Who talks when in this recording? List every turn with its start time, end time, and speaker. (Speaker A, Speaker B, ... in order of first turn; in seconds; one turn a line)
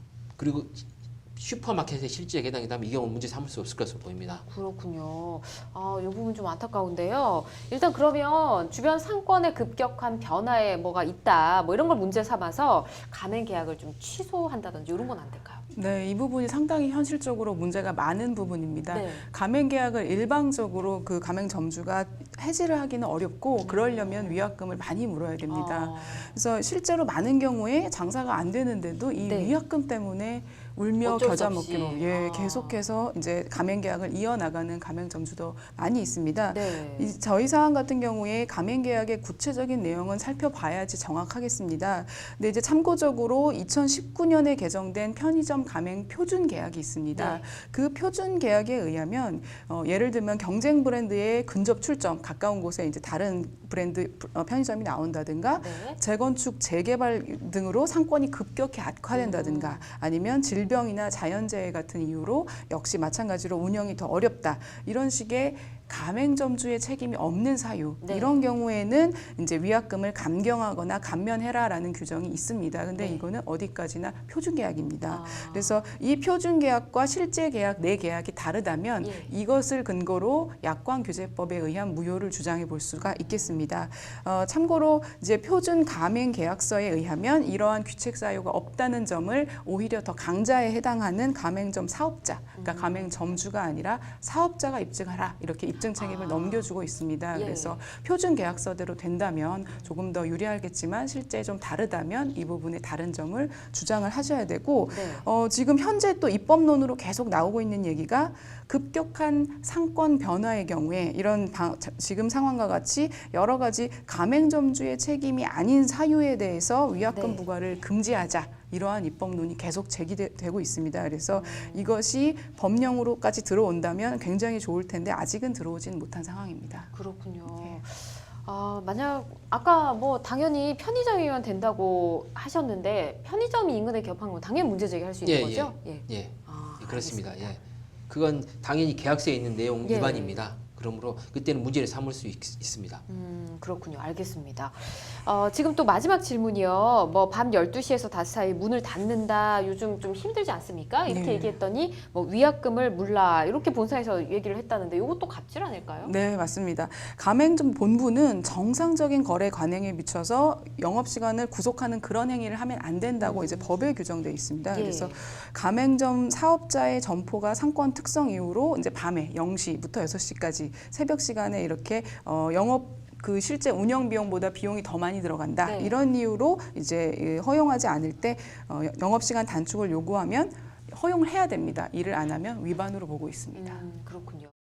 Speaker A: 0.4-4.5
Speaker B: 4.4-15.6
Speaker C: 15.7-126.9
Speaker B: 18.9-19.3
Speaker B: 23.6-24.4
Speaker B: 25.5-26.4
Speaker B: 29.2-29.6
Speaker B: 31.0-32.9
Speaker B: 36.5-37.2
Speaker B: 47.1-47.4
Speaker B: 55.6-56.0
Speaker B: 59.1-59.9
Speaker B: 68.0-68.3
Speaker B: 73.0-73.2
Speaker B: 75.1-75.8
Speaker B: 79.0-79.3
Speaker B: 83.0-83.7
Speaker B: 92.5-93.2
Speaker B: 95.8-96.7
Speaker B: 97.3-97.8
Speaker B: 104.9-105.3
Speaker B: 117.1-117.5
Speaker B: 121.3-122.0
Speaker B: 126.9-137.6
Speaker C: 127.5-127.8
Speaker A: 135.2-143.0
Speaker B: 139.8-140.4
Speaker B: 143.1-156.1
Speaker C: 151.1-151.6
Speaker C: 156.0-183.8
Speaker B: 163.2-163.8
Speaker B: 164.7-165.2
Speaker B: 175.6-176.0
Speaker B: 183.6-184.5